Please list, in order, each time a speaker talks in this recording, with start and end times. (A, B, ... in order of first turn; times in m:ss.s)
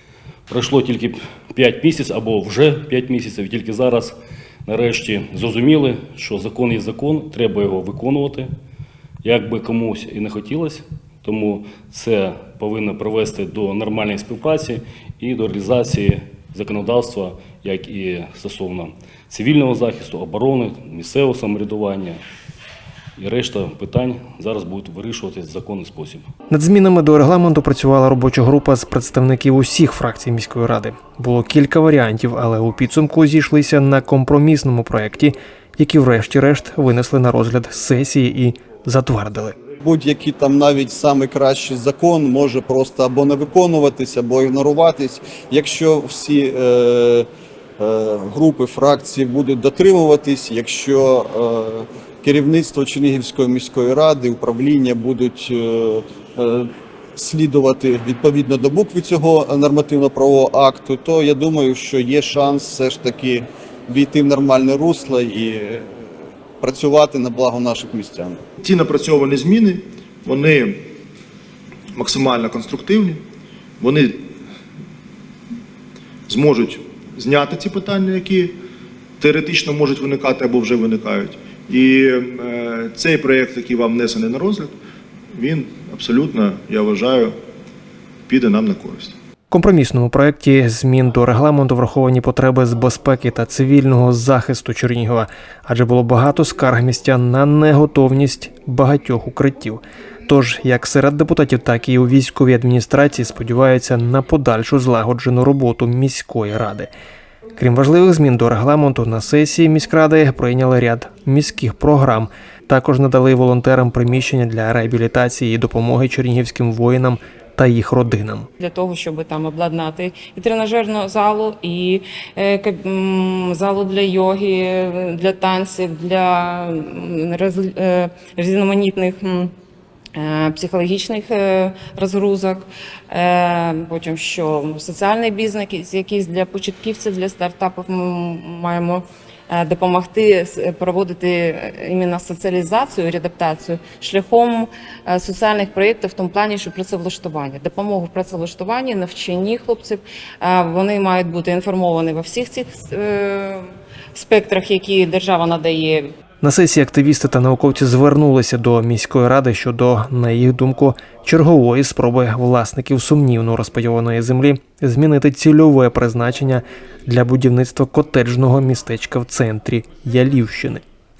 0:00.5-0:08.5 A
0:09.2-0:22.2 A
0:23.2-0:26.2 A
0:26.5-0:39.6 B
0:39.8-0:47.3 C
0:47.8-1:08.4 C
1:08.6-1:10.8 D
1:11.9-1:13.2 D
1:13.8-1:14.3 D
1:16.3-1:18.5 D
1:19.2-1:24.7 D
1:25.3-1:27.3 D
1:28.3-1:29.1 D
1:29.5-1:46.9 B
1:47.6-1:58.5 B
1:58.6-2:09.5 E
2:10.1-2:36.1 E
2:36.4-2:50.8 B